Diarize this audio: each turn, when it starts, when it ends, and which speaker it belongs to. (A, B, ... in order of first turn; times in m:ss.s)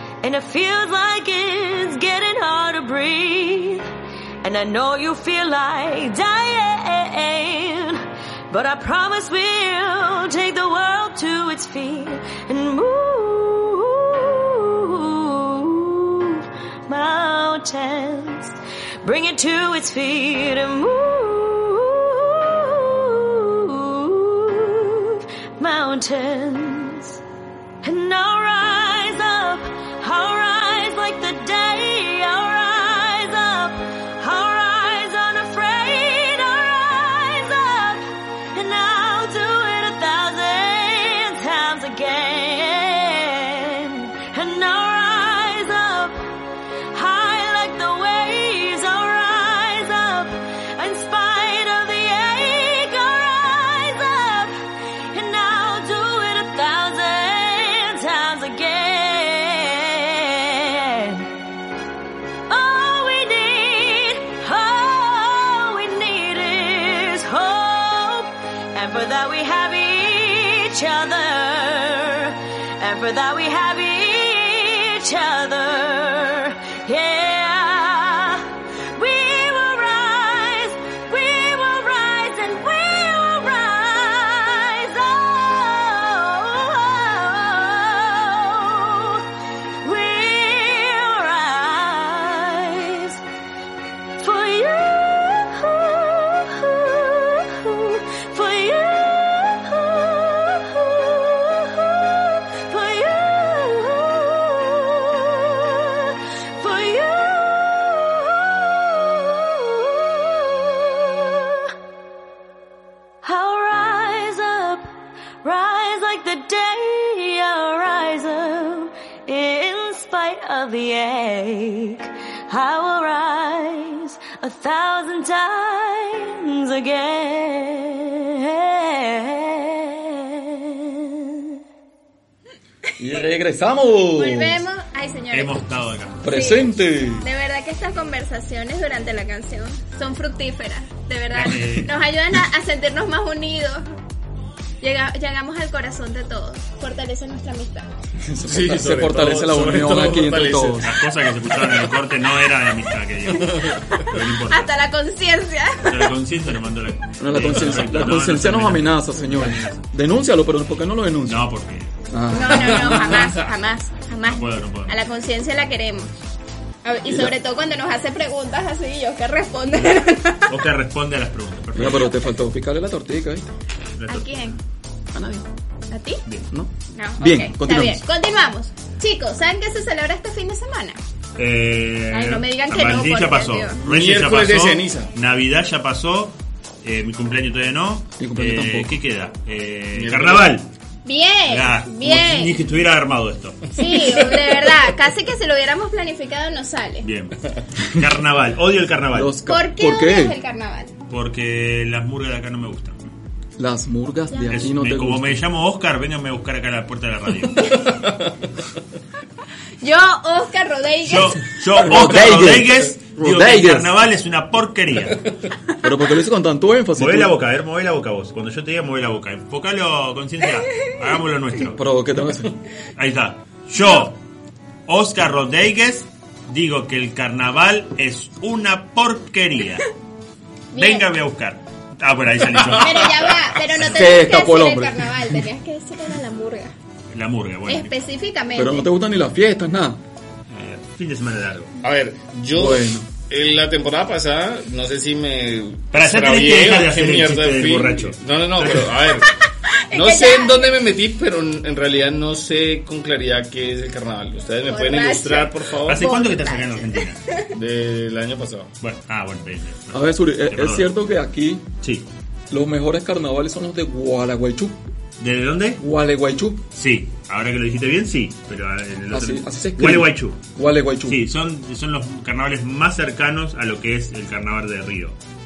0:00.2-0:03.8 A
0:04.4-0:27.2 A
0:27.8-0:46.3 A
0:46.9-0:54.6 A
0:55.1-1:01.3 A
1:02.5-1:29.2 A
1:29.8-1:33.2 A
1:34.2-1:51.7 A
1:53.2-1:54.9 A
1:55.4-2:11.4 A
2:13.0-2:14.6 B
2:14.1-2:15.6 C
2:15.3-2:16.2 D
2:16.2-2:17.3 B
2:16.3-2:23.8 C
2:21.3-2:21.9 D
2:24.8-2:27.9 C
2:28.2-2:30.9 B
2:28.4-2:30.9 E
2:30.8-2:34.7 D
2:34.5-2:36.1 C
2:35.9-2:39.8 D
2:37.2-2:41.5 B
2:41.3-2:41.9 D
2:42.1-2:43.2 B
2:42.3-2:46.1 C
2:44.3-2:45.0 D
2:46.8-2:50.5 C
2:47.1-2:47.3 B
2:50.5-2:52.1 D
2:51.8-2:53.5 B
2:54.0-2:54.4 D
2:54.1-2:54.6 C
2:55.1-2:55.5 B
2:55.9-2:56.2 C
2:56.5-2:58.0 B
2:56.9-3:01.0 C
3:01.4-3:10.7 D
3:02.1-3:03.8 C
3:03.8-3:05.1 E
3:08.2-3:09.0 B
3:10.0-3:10.5 E
3:11.0-3:12.6 C
3:11.5-3:13.7 D
3:13.8-3:17.1 C
3:17.0-3:19.3 D
3:19.1-3:20.4 B
3:19.5-3:20.9 C
3:21.1-3:23.1 D
3:23.6-3:25.4 B
3:24.3-3:24.6 C
3:24.5-3:27.8 D
3:29.8-3:31.4 C
3:31.1-3:35.2 D
3:31.8-3:33.9 B
3:35.8-3:37.4 B
3:37.0-3:41.8 D
3:41.7-3:42.5 B
3:43.0-3:44.2 D
3:44.9-3:49.9 D
3:50.7-3:51.1 C
3:50.8-3:53.2 D
3:52.7-3:53.1 E
3:52.8-3:56.7 C
3:53.8-3:54.2 D
3:53.8-3:55.4 B
3:57.1-3:58.0 D
3:57.7-3:58.9 C
3:58.6-4:00.0 B
4:00.5-4:01.7 D
4:01.8-4:09.3 E
4:02.5-4:03.1 B
4:05.9-4:09.0 D
4:09.7-4:10.8 C
4:09.9-4:16.1 E
4:14.6-4:17.5 C
4:15.9-4:17.2 D
4:17.5-4:18.7 E
4:18.8-4:20.9 D
4:19.9-4:21.6 B
4:22.5-4:24.8 B
4:25.2-4:25.8 D
4:25.8-4:26.6 B
4:26.8-4:30.4 D
4:29.1-4:31.2 B
4:31.1-4:35.2 D